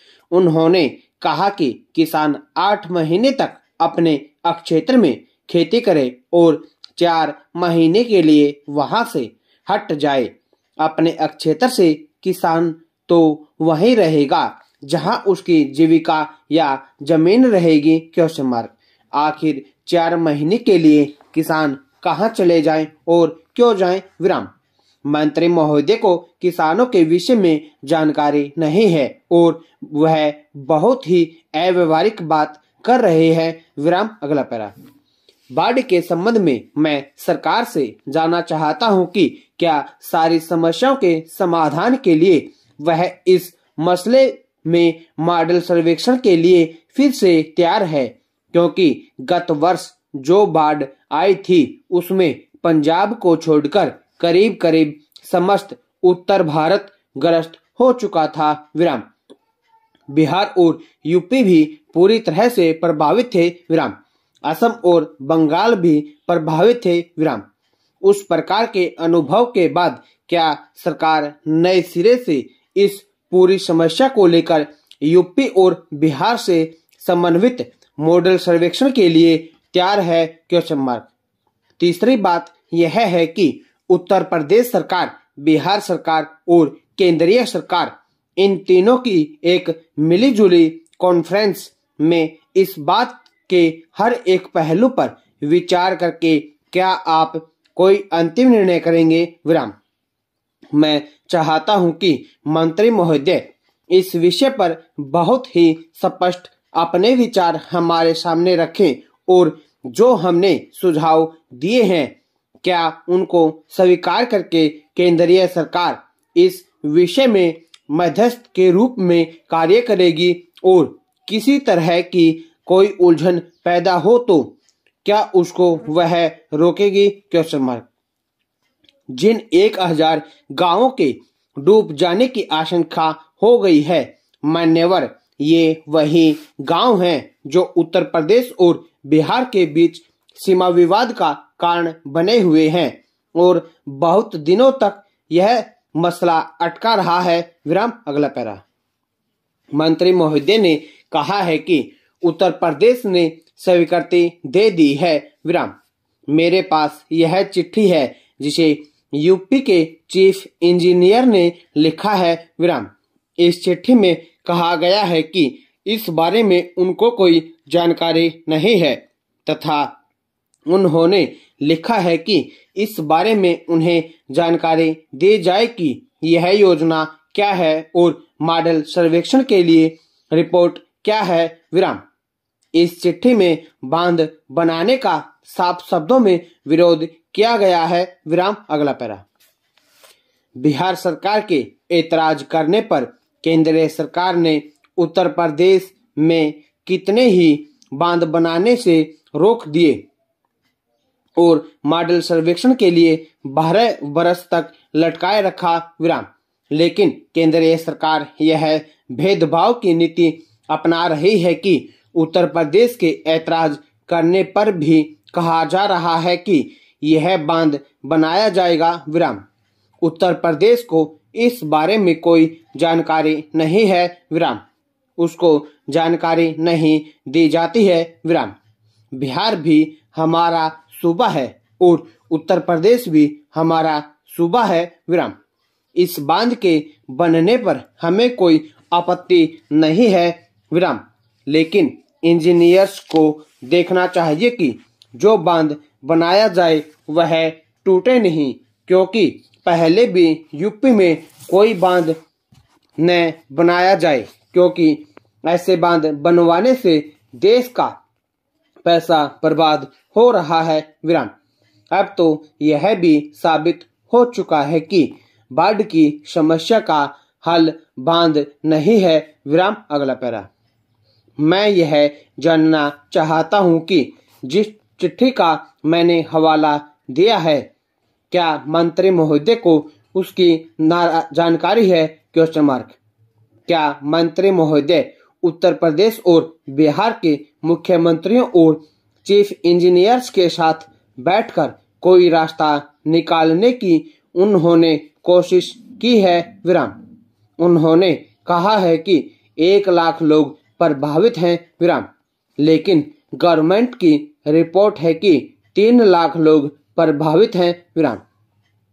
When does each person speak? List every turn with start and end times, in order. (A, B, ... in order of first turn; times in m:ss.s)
0:00.3-0:24.5 A
0:25.0-0:34.7 A
0:35.5-0:59.1 A
1:00.1-1:07.4 A
1:08.0-1:21.1 A
1:21.8-1:39.8 A
1:40.8-2:04.5 A
2:05.0-2:07.9 A
2:09.1-2:28.6 A
2:29.7-2:35.7 A
2:36.3-2:49.9 A
2:50.7-3:02.0 A
3:02.8-3:09.2 A
3:10.6-3:20.0 A
3:21.4-3:39.4 A
3:40.0-3:44.6 A
3:45.2-3:48.6 A
3:49.1-3:55.3 A
3:56.0-4:12.2 A
4:13.0-4:18.0 A
4:18.8-4:21.3 A
4:21.9-4:30.5 A
4:31.4-4:37.7 A
4:38.3-4:43.0 A
4:43.7-4:57.0 A
4:57.6-5:02.1 A
5:02.6-5:08.2 A